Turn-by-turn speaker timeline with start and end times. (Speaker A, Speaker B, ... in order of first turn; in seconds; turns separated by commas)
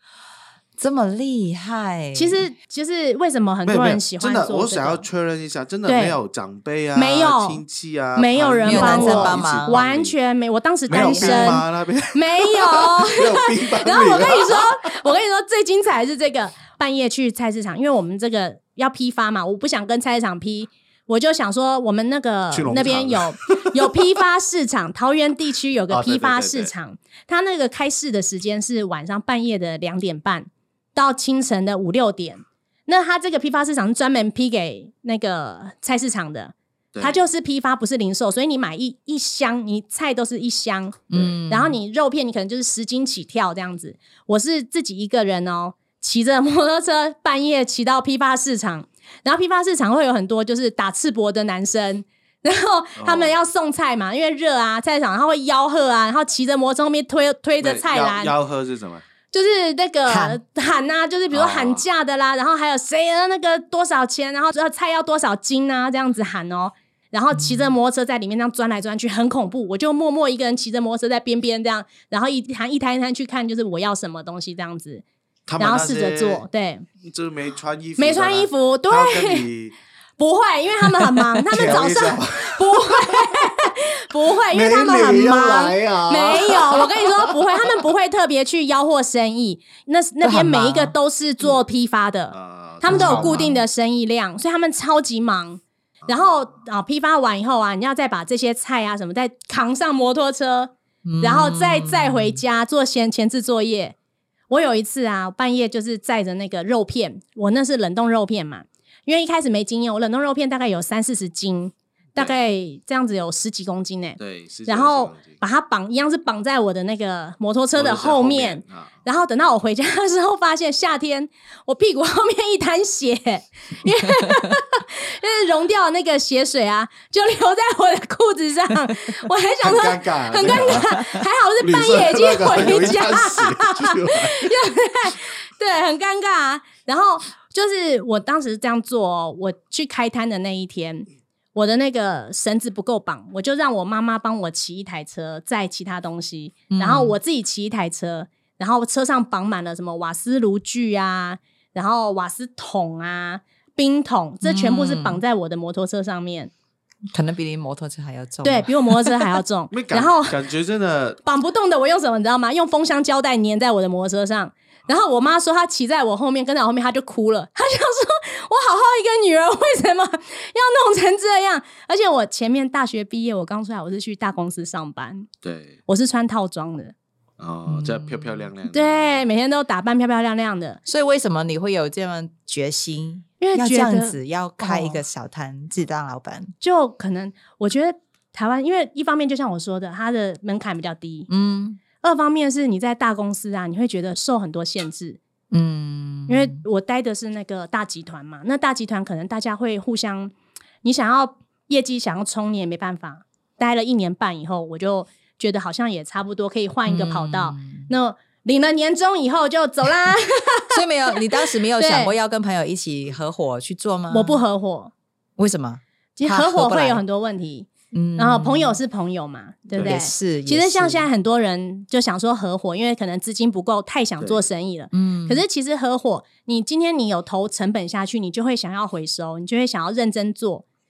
Speaker A: 0.8-2.5, Speaker B: 2.1-5.0, Speaker C: 3.6-10.2, Speaker B: 5.9-6.2, Speaker B: 7.0-7.6, Speaker B: 8.2-58.3, Speaker A: 8.7-9.8, Speaker C: 10.9-14.9, Speaker A: 10.9-11.6, Speaker C: 22.5-23.8, Speaker C: 25.9-26.7, Speaker C: 36.9-37.2, Speaker A: 41.1-41.8, Speaker C: 41.1-41.4, Speaker C: 53.0-53.4, Speaker C: 57.6-59.0, Speaker B: 59.3-75.0, Speaker A: 60.1-60.4, Speaker C: 61.3-61.9, Speaker A: 67.3-67.7, Speaker C: 75.5-76.4, Speaker B: 75.6-76.9, Speaker C: 77.0-79.8, Speaker B: 78.0-79.5, Speaker B: 80.2-104.0, Speaker C: 81.5-83.4, Speaker C: 84.5-87.5, Speaker A: 90.2-91.0, Speaker C: 92.3-93.6, Speaker A: 92.9-93.6, Speaker A: 101.0-102.4, Speaker B: 104.5-156.5, Speaker C: 114.2-115.4, Speaker C: 117.8-119.0, Speaker A: 124.1-124.5, Speaker C: 129.6-131.0, Speaker A: 130.5-131.1, Speaker C: 131.6-134.5, Speaker A: 146.7-147.2, Speaker A: 154.4-155.2, Speaker A: 157.1-159.2, Speaker B: 158.4-160.4, Speaker C: 159.7-161.2, Speaker B: 161.2-175.3, Speaker C: 175.4-175.8, Speaker B: 175.9-176.9, Speaker C: 177.4-179.3, Speaker A: 177.7-178.5, Speaker B: 178.7-180.8, Speaker A: 180.9-186.5, Speaker B: 183.4-185.0, Speaker B: 186.6-191.3, Speaker A: 191.3-191.8, Speaker B: 192.0-195.2, Speaker A: 195.5-196.6, Speaker B: 196.3-212.2, Speaker A: 206.9-207.9, Speaker A: 210.7-214.4, Speaker B: 214.1-214.9, Speaker A: 215.4-217.0, Speaker B: 216.2-230.7, Speaker A: 217.9-218.8, Speaker A: 219.8-221.1, Speaker A: 224.9-225.4